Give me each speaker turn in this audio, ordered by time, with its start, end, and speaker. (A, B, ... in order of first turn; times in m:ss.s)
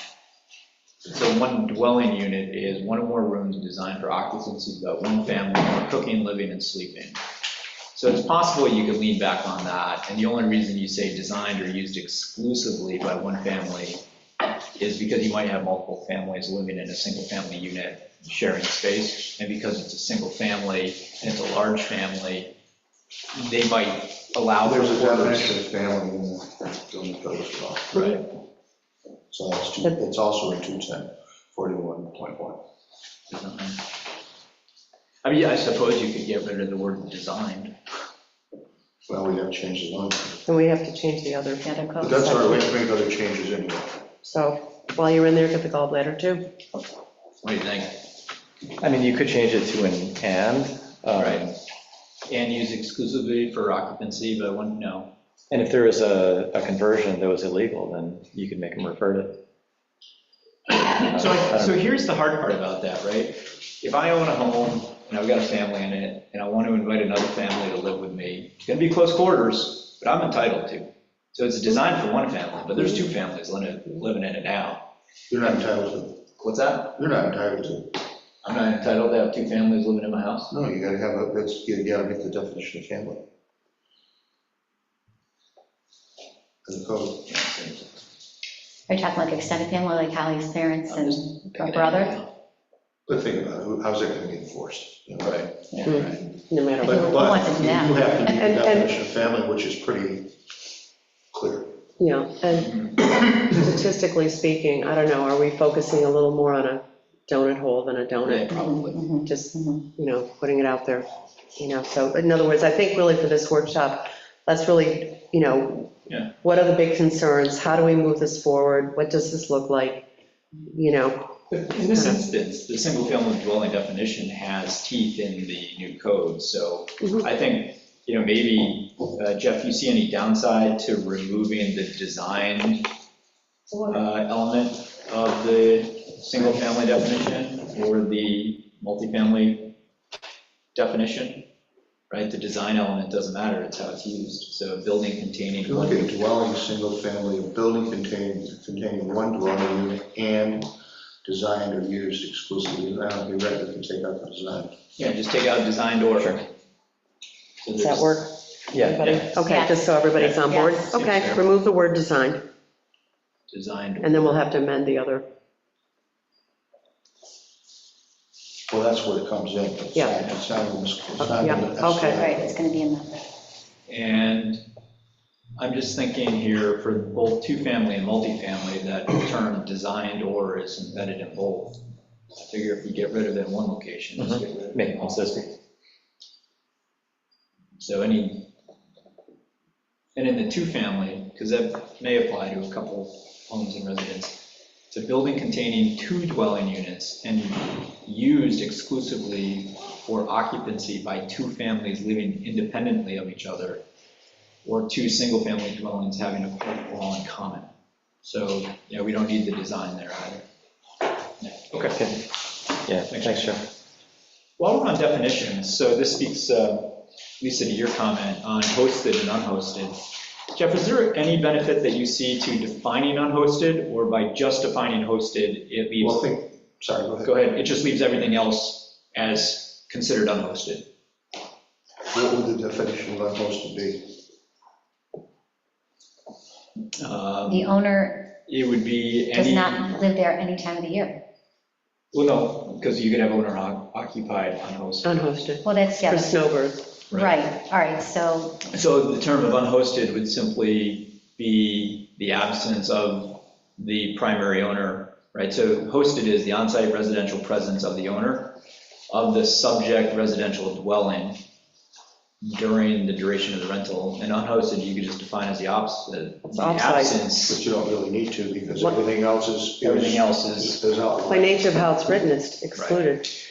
0:01.1-0:07.2 A
0:07.9-0:14.0 A
0:14.8-0:22.5 A
0:23.3-0:25.6 A
0:24.6-0:28.2 B
0:27.9-0:28.2 A
0:29.3-0:32.6 B
0:33.3-0:33.8 A
0:35.2-0:37.8 A
0:39.1-0:40.4 B
0:40.4-0:42.7 C
0:41.6-0:42.0 D
0:42.0-0:44.0 B
0:44.2-0:46.5 C
0:47.4-0:48.0 A
0:48.8-0:51.5 E
0:51.1-0:51.5 A
0:52.3-0:55.1 A
0:55.5-0:59.4 E
1:00.7-1:14.8 A
1:01.0-1:01.7 E
1:15.3-1:16.2 B
1:16.4-1:17.0 A
1:17.0-1:18.0 B
1:18.4-1:20.5 A
1:20.5-1:23.2 B
1:26.6-1:27.3 B
1:27.3-1:28.0 A
1:28.9-1:32.2 D
1:30.9-1:32.3 A
1:33.1-1:35.5 B
1:35.2-1:36.4 A
1:35.8-1:37.2 C
1:36.8-1:38.2 D
1:36.8-1:40.3 B
1:38.4-1:38.9 C
1:41.3-1:41.8 B
1:42.0-2:00.1 C
1:42.6-1:42.9 A
1:48.2-1:49.1 A
1:48.6-1:49.8 D
1:56.1-1:56.3 A
2:00.6-2:02.2 C
2:01.6-2:12.9 A
2:13.8-2:19.7 A
2:20.7-2:21.5 A
2:22.1-2:26.1 A
2:25.6-2:30.7 B
2:31.2-2:34.7 B
2:35.0-2:36.5 A
2:37.6-2:38.2 A
2:37.8-2:42.4 C
2:38.7-2:39.1 E
2:39.0-2:39.4 A
2:39.4-2:39.9 D
2:40.1-2:40.4 A
2:40.4-2:41.0 D
2:41.1-2:41.4 B
2:43.5-2:44.5 A
2:44.0-2:45.2 C
2:48.7-2:52.5 B
2:49.9-2:50.2 C
2:51.3-2:52.2 C
2:52.1-2:53.2 D
2:53.9-2:54.6 A
2:55.6-3:01.8 A
3:02.4-3:05.5 A
3:04.2-3:05.5 E
3:07.8-3:08.5 A
3:10.2-3:23.8 A
3:24.6-3:27.7 A
3:28.2-3:30.4 A
3:31.4-3:32.1 A
3:31.8-3:32.2 E
3:32.8-3:33.6 E
3:33.1-3:33.6 A
3:34.6-3:46.2 A
3:46.0-3:47.3 B
3:47.2-3:50.9 A
3:52.1-3:54.2 B
3:57.0-4:00.0 A
3:57.5-3:58.3 D
3:59.3-4:01.2 D
4:02.1-4:05.2 A
4:05.0-4:06.9 C
4:05.6-4:06.4 D
4:07.1-4:07.4 A
4:07.1-4:08.6 D
4:08.6-4:18.6 A
4:19.1-4:21.4 A
4:22.4-4:27.6 A
4:26.5-4:27.2 C
4:27.4-4:32.0 B
4:29.8-4:30.8 A
4:31.3-4:33.4 C
4:32.7-4:33.0 A